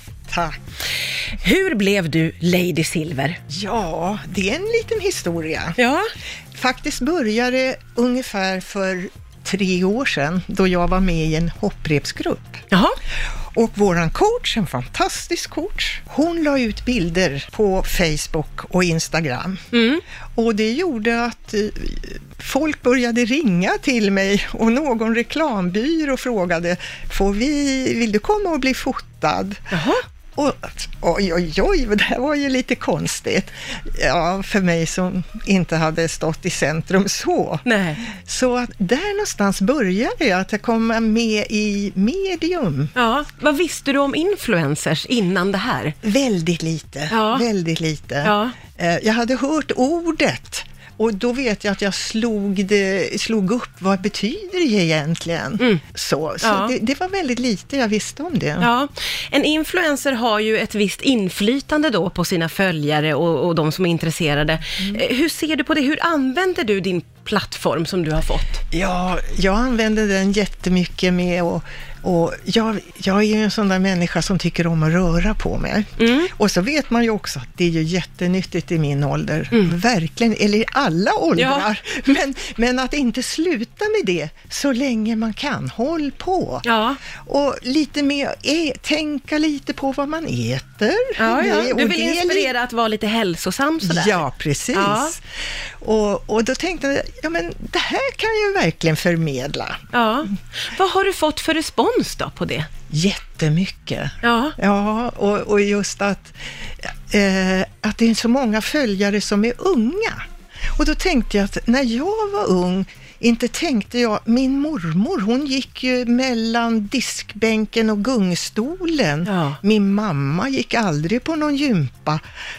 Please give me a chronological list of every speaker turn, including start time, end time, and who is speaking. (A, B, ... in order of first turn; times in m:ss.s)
0:00.3-0:00.6 A
0:01.3-0:03.4 B
0:03.5-0:05.8 A
0:05.8-0:06.1 B
0:06.5-0:12.6 A
0:12.7-0:13.0 B
0:13.5-0:19.6 A
0:19.7-0:20.0 B
0:20.4-0:29.6 A
0:29.7-0:30.0 B
0:30.4-0:42.9 A
0:37.6-0:38.0 B
0:42.9-0:45.9 B
0:46.0-0:58.7 A
0:47.1-0:47.4 B
0:48.2-0:48.5 B
0:56.4-0:56.7 B
0:58.6-1:08.6 B
1:08.7-1:26.6 A
1:16.0-1:16.3 B
1:21.4-1:21.7 B
1:26.6-1:27.0 B
1:27.2-1:32.5 A
1:31.2-1:35.1 B
1:33.8-1:35.2 A
1:35.8-1:39.8 A
1:39.9-1:42.7 B
1:42.9-1:50.2 A
1:44.2-1:44.6 B
1:50.8-2:02.2 A
1:59.2-1:59.6 B